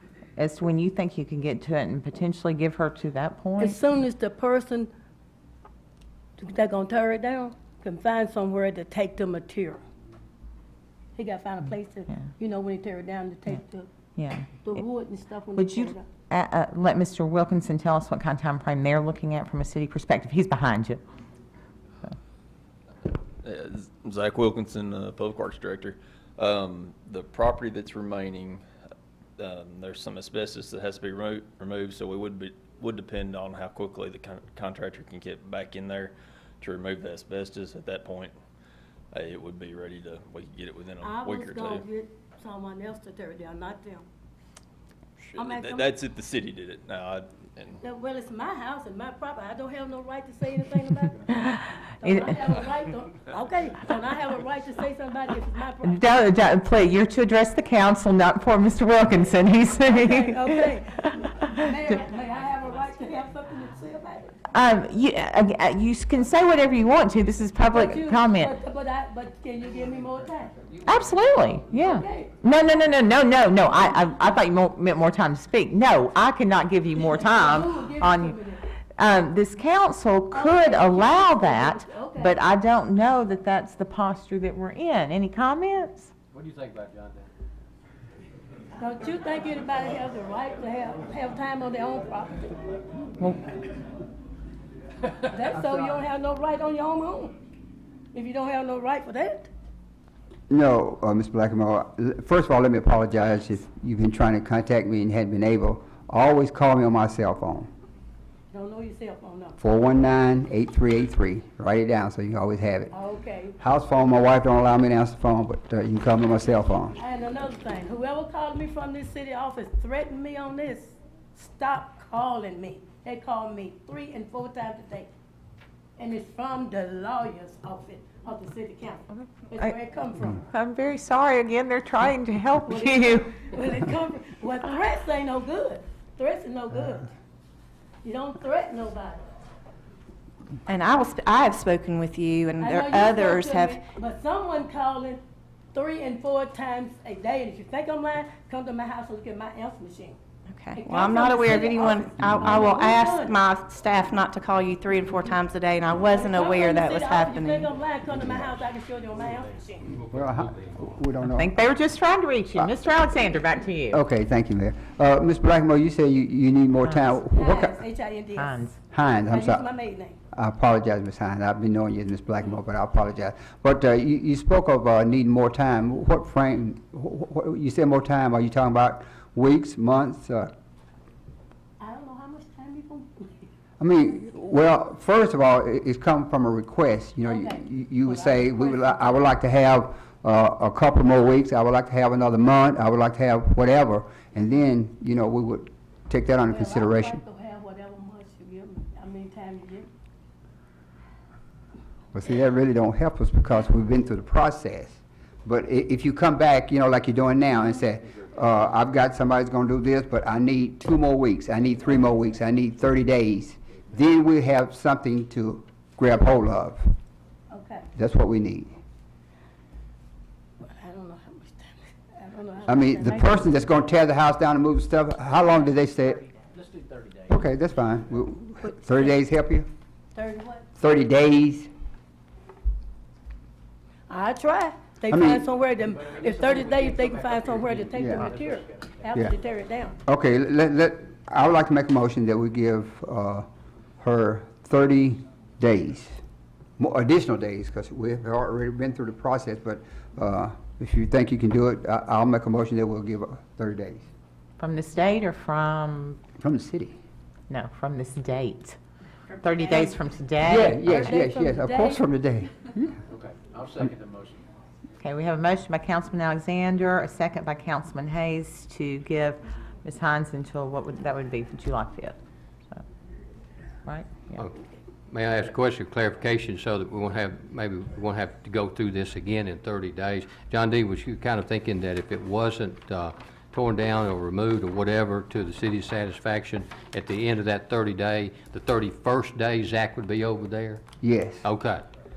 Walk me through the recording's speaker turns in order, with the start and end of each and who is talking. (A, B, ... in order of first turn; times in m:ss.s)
0:00.4-0:03.8 A
0:03.6-0:04.9 B
0:06.4-0:09.8 B
0:11.2-0:13.9 B
0:14.2-0:14.6 A
0:14.6-0:16.0 B
0:15.6-0:21.0 A
0:23.4-0:28.6 C
0:29.4-0:38.4 C
0:39.1-0:41.8 C
0:41.0-0:44.0 B
0:45.4-0:45.9 B
0:45.4-0:47.8 C
0:47.8-0:56.2 B
0:52.0-0:52.3 A
0:55.8-1:00.7 A
0:59.8-1:04.4 B
1:04.5-1:08.5 A
1:07.7-1:10.6 B
1:10.9-1:18.4 A
1:11.8-1:12.4 B
1:16.9-1:18.7 B
1:19.0-1:26.1 A
1:20.3-1:22.4 B
1:26.3-1:27.2 D
1:28.8-1:32.6 B
1:35.2-1:37.4 B
1:38.1-1:39.5 B
1:40.5-1:47.7 E
1:48.5-1:49.6 B
1:49.6-1:52.9 E
1:52.9-1:53.6 B
1:53.6-1:57.0 E
1:57.0-2:05.1 B
2:06.0-2:10.4 B
2:09.2-2:09.8 A
2:10.4-2:13.4 A
2:12.7-2:17.1 B
2:18.0-2:19.3 B
2:20.7-2:23.8 F
2:22.6-2:25.2 B
2:25.7-2:30.2 B
2:30.5-2:37.7 F
2:30.7-2:33.4 B
2:36.0-2:39.9 B
2:40.0-2:41.5 E
2:41.4-2:44.0 A
2:43.9-2:47.8 E
2:46.8-2:47.2 A
2:47.3-2:48.6 B
2:48.4-2:48.7 A
2:48.9-2:49.7 E
2:49.3-2:50.2 B
2:50.3-3:00.5 E
3:01.8-3:03.5 B
3:03.8-3:17.2 E
3:07.2-3:09.2 B
3:16.5-3:19.9 B
3:22.1-3:36.8 E
3:37.5-3:37.9 B
3:38.0-3:38.8 E
3:40.6-3:43.5 B
3:42.7-3:46.2 E
3:46.1-3:47.4 D
3:47.3-3:49.7 E
3:48.6-3:49.1 B
3:50.1-3:50.7 B
3:50.8-3:51.7 E
3:54.1-4:00.0 B
3:55.1-3:55.4 E
3:56.1-3:58.9 D
3:58.0-3:58.3 E
4:00.1-4:03.5 E
4:04.0-4:06.2 E
4:06.8-4:14.1 E
4:14.6-4:16.2 A
4:16.4-4:16.9 E
4:17.5-4:18.8 A
4:19.3-4:19.8 F
4:19.4-4:20.9 A
4:20.4-4:23.0 E
4:20.8-4:22.0 B
4:23.1-4:24.4 D
4:25.0-4:32.2 A
4:33.8-4:34.4 A
4:35.1-4:50.8 G
4:51.0-4:51.4 E
4:51.4-4:51.8 G